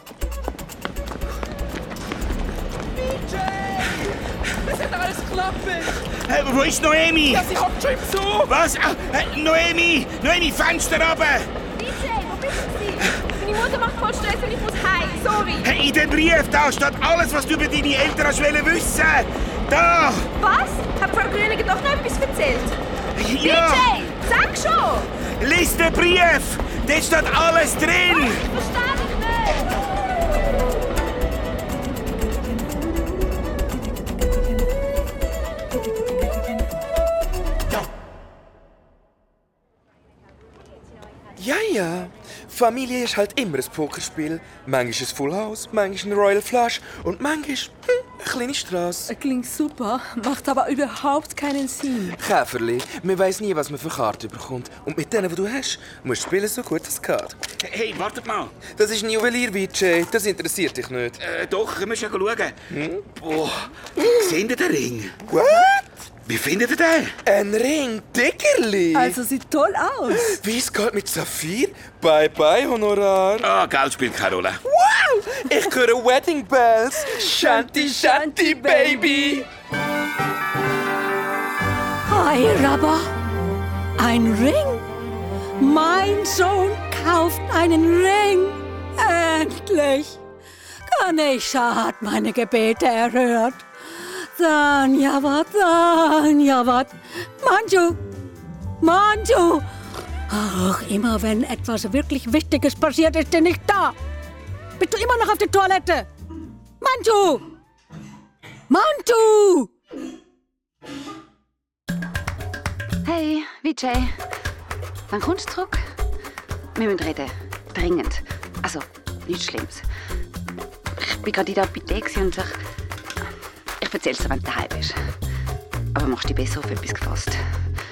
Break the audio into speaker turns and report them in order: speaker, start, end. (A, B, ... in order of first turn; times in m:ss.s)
0:03.0-0:06.0 A
0:06.0-0:07.6 B
0:07.3-0:08.5 A
0:08.4-0:11.5 B
0:11.8-0:15.7 C
0:15.6-0:20.3 B
0:20.4-0:22.8 C
0:23.2-0:24.1 B
0:23.3-0:25.1 C
0:25.4-0:28.4 B
0:28.1-0:29.8 C
0:41.4-0:49.1 A
0:49.1-0:52.2 D
0:52.2-0:57.4 A
0:57.6-0:58.6 B
0:58.7-1:01.2 A
1:01.2-1:02.6 B
1:02.7-1:03.0 A
1:03.2-1:05.2 B
1:05.3-1:05.8 A
1:06.3-1:07.2 B
1:07.2-1:09.2 A
1:08.9-1:10.4 D
1:10.2-1:13.5 A
1:13.4-1:14.6 B
1:14.6-1:19.5 A
1:17.0-1:19.4 D
1:22.1-1:23.1 E
1:24.0-1:24.8 E
1:25.6-1:30.2 E
1:30.9-1:38.0 E
1:38.8-1:39.7 E
1:40.3-1:44.0 E
1:44.8-1:46.1 E
1:46.8-1:47.4 E
1:48.7-1:49.7 E
1:53.0-1:54.2 F
1:55.1-1:55.8 F
1:56.8-1:59.8 F
2:01.0-2:02.6 F
2:03.8-2:04.9 F
2:06.0-2:07.4 F